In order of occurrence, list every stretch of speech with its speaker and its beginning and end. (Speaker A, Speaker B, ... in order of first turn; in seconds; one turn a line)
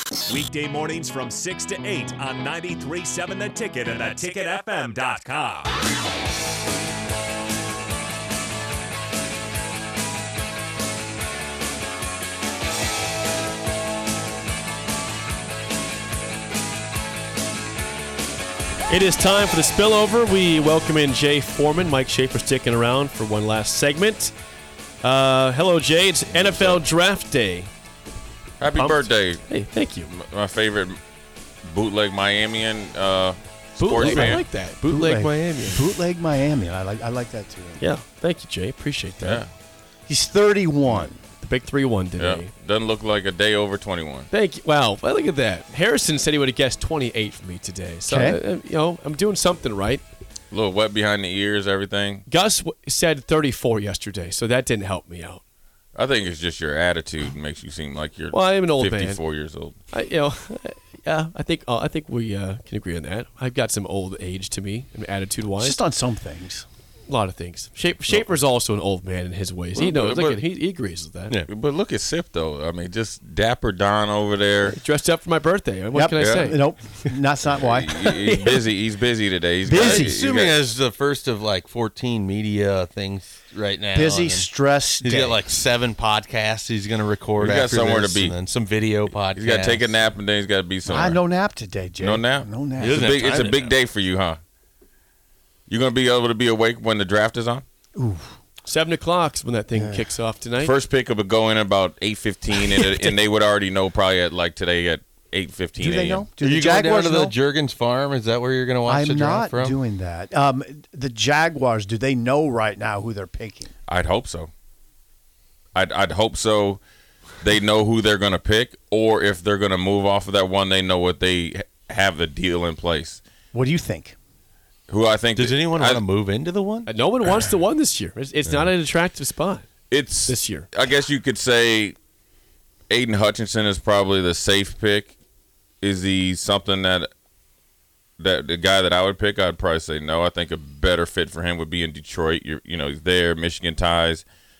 Speaker A: 0.3-5.7
Speaker B: 18.9-24.3
Speaker B: 25.0-27.7
Speaker C: 26.3-26.8
Speaker C: 28.6-29.5
Speaker B: 28.8-30.1
Speaker C: 30.1-31.0
Speaker C: 31.6-34.4
Speaker B: 33.8-35.8
Speaker D: 34.0-34.4
Speaker E: 34.9-37.8
Speaker D: 35.0-35.7
Speaker B: 37.8-39.5
Speaker C: 39.2-39.5
Speaker E: 40.1-41.2
Speaker C: 40.9-41.1
Speaker B: 41.3-42.5
Speaker C: 42.2-44.3
Speaker B: 44.3-50.0
Speaker E: 48.1-48.4
Speaker C: 50.5-52.3
Speaker B: 52.3-55.4
Speaker C: 56.0-59.8
Speaker B: 58.3-59.2
Speaker B: 59.9-65.8
Speaker E: 65.6-66.7
Speaker B: 67.1-71.4
Speaker C: 69.8-70.4
Speaker C: 71.5-74.8
Speaker B: 74.7-77.1
Speaker E: 75.9-78.1
Speaker C: 76.2-76.5
Speaker C: 77.5-80.6
Speaker B: 78.0-78.7
Speaker E: 79.7-80.4
Speaker D: 79.7-84.5
Speaker E: 83.9-85.4
Speaker D: 85.0-89.9
Speaker C: 87.4-88.4
Speaker C: 89.3-91.2
Speaker E: 90.9-93.0
Speaker C: 92.0-94.4
Speaker D: 92.8-93.7
Speaker C: 95.7-97.6
Speaker E: 98.0-98.3
Speaker B: 98.7-100.8
Speaker E: 99.8-100.0
Speaker C: 100.6-106.3
Speaker B: 102.6-103.1
Speaker E: 105.8-107.4
Speaker D: 106.4-109.8
Speaker E: 108.9-113.7
Speaker C: 113.9-114.5
Speaker C: 115.8-116.8
Speaker C: 117.4-123.2
Speaker E: 123.5-124.2
Speaker C: 124.9-126.0
Speaker D: 125.4-127.5
Speaker B: 126.8-129.7
Speaker C: 129.9-132.0
Speaker B: 130.2-130.7
Speaker C: 132.9-135.1
Speaker C: 135.8-137.1
Speaker C: 138.2-144.2